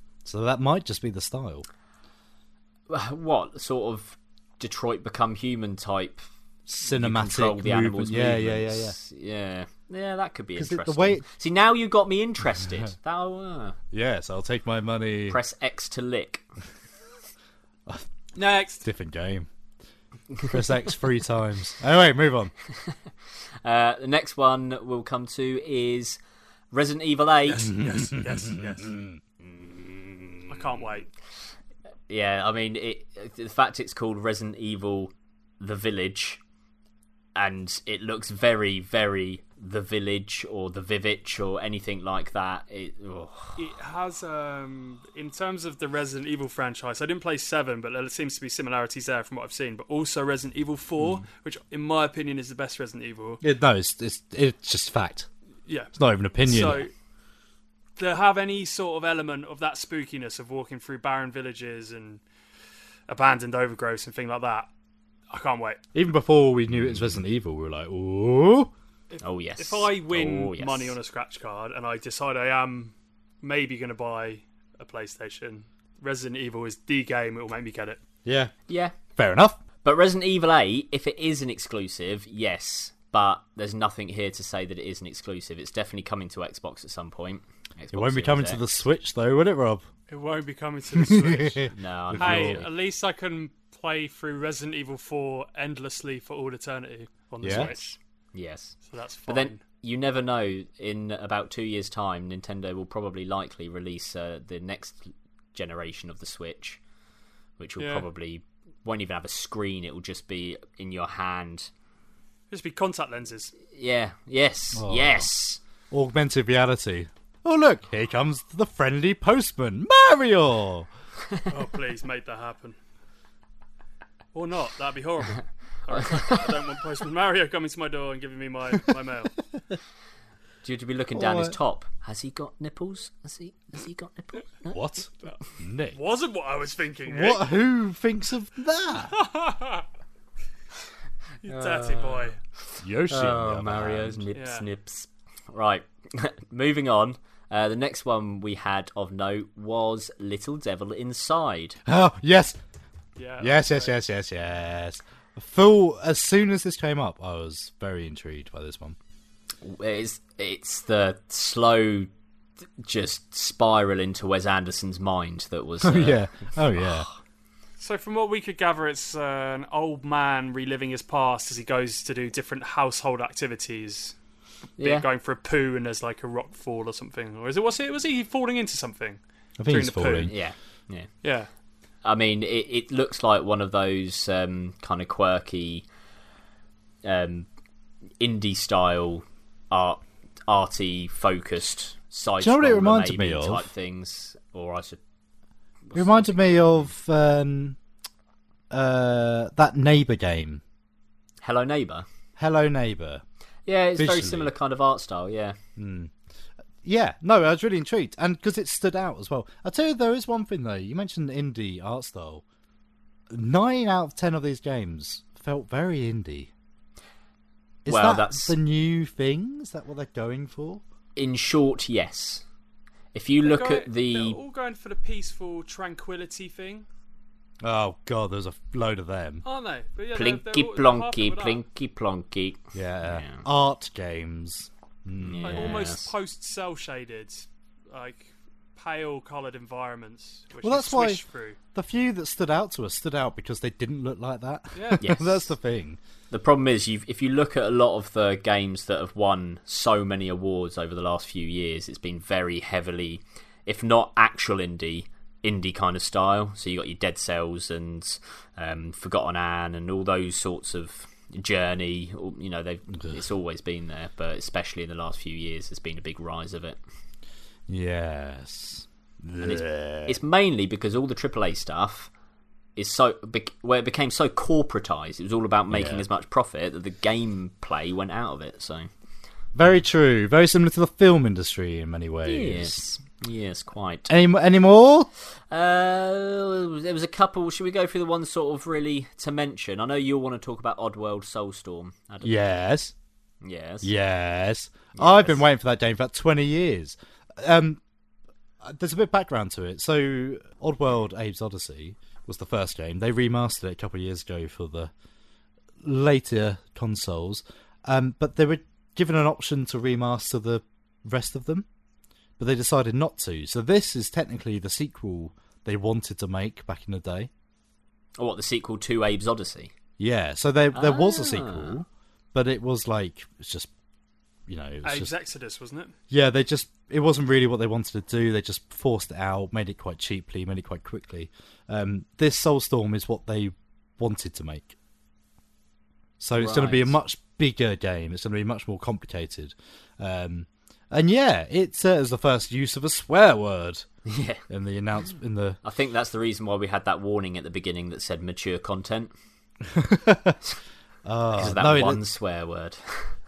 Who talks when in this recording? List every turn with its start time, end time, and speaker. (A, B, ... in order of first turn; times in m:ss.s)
0:00.2-0:01.7 A
0:02.9-0:06.3 B
0:06.7-0:09.0 A
0:06.8-0:13.8 B
0:10.6-0:11.2 A
0:12.6-0:12.9 A
0:13.9-0:15.4 A
0:15.3-0:16.5 B
0:18.4-0:18.9 C
0:18.8-0:19.5 A
0:20.5-0:22.5 A
0:23.6-0:26.2 B
0:26.7-0:27.8 B
0:27.5-0:29.2 A
0:27.8-0:28.9 C
0:29.4-0:30.5 B
0:30.5-0:31.1 C
0:32.1-0:36.4 B
0:37.4-0:43.6 B
0:43.6-0:53.4 C
0:51.0-0:51.2 B
0:53.4-0:55.3 A
0:55.7-0:56.9 C
0:56.0-0:56.8 A
0:58.0-1:02.2 C
1:03.1-1:04.7 C
1:05.3-1:05.8 C
1:05.9-1:08.7 A
1:06.7-1:07.2 B
1:09.1-1:18.0 C
1:09.2-1:11.0 B
1:18.2-1:18.5 A
1:18.7-1:19.0 B
1:19.2-1:19.6 A
1:19.8-1:28.6 B
1:27.9-1:29.9 A
1:30.1-1:38.0 C
1:31.0-1:32.7 A
1:31.7-1:32.7 B
1:37.4-1:37.8 A
1:38.3-1:46.8 B
1:38.8-1:39.6 C
1:47.6-1:51.7 B
1:47.8-1:48.1 C
1:52.5-1:53.5 C
1:53.7-1:55.6 B
1:54.7-1:55.3 A
1:55.9-2:00.9 A
2:01.5-2:02.8 C
2:04.3-2:09.4 C
2:05.9-2:06.4 B
2:10.6-2:14.8 B
2:11.1-2:11.6 A
2:14.7-2:16.0 A
2:15.9-2:17.5 C
2:17.1-2:19.2 A
2:19.1-2:19.8 C
2:21.4-2:22.4 C
2:21.5-2:22.2 B
2:22.8-2:24.2 A
2:23.1-2:31.8 B
2:24.3-2:24.6 C
2:31.9-2:32.6 A
2:33.2-2:33.9 C
2:33.4-2:39.0 A
2:39.6-2:42.1 B
2:42.8-2:46.2 B
2:45.8-2:47.1 A
2:46.8-2:47.1 B
2:47.8-2:54.2 C
2:54.8-2:55.1 B
2:54.8-3:00.3 C
2:59.6-3:00.3 A
3:00.3-3:01.1 B
3:01.2-3:01.5 C
3:02.0-3:05.9 B
3:07.0-3:07.5 B
3:08.2-3:15.0 B
3:12.4-3:13.7 A
3:15.9-3:16.9 B
3:15.9-3:17.8 A
3:18.7-3:20.6 A
3:21.4-3:22.1 B
3:22.4-3:23.2 A
3:23.7-3:25.6 B
3:24.0-3:24.5 A
3:25.8-3:26.1 A
3:26.8-3:32.4 A
3:33.3-3:36.5 A
3:37.8-3:40.8 A
3:37.9-3:38.6 B
3:41.2-3:42.4 B
3:43.1-3:44.4 B
3:43.4-3:46.9 C
3:47.6-3:49.4 A
3:49.4-3:51.6 C
3:50.1-3:53.4 B
3:52.7-3:55.8 A
3:55.2-3:56.1 B
3:55.4-4:01.6 C
4:00.6-4:01.2 A
4:01.7-4:06.0 A
4:04.8-4:05.0 C
4:05.0-4:05.3 B
4:06.3-4:26.8 B
4:22.9-4:23.2 A
4:27.7-4:30.2 A
4:29.4-4:32.1 B
4:32.8-4:38.9 B
4:35.7-4:36.1 A
4:39.6-4:42.8 A
4:42.2-4:44.1 B
4:44.1-4:45.1 A
4:45.5-4:52.3 B
4:52.2-4:52.9 A
4:53.4-4:53.9 B
4:53.8-4:57.8 A
4:55.0-4:55.4 B
4:58.6-5:04.9 A
5:05.8-5:11.7 A
5:12.4-5:17.3 A
5:18.2-5:19.7 B
5:20.0-5:23.7 A
5:20.7-5:21.8 B
5:24.5-5:25.1 A
5:24.8-5:25.9 C
5:26.1-5:34.8 A
5:36.2-5:43.9 A
5:36.4-5:37.0 B
5:44.1-5:44.4 B
5:44.5-5:45.6 A
5:45.6-5:49.1 B
5:49.7-5:50.4 A
5:51.0-5:52.0 A
5:51.4-5:53.2 B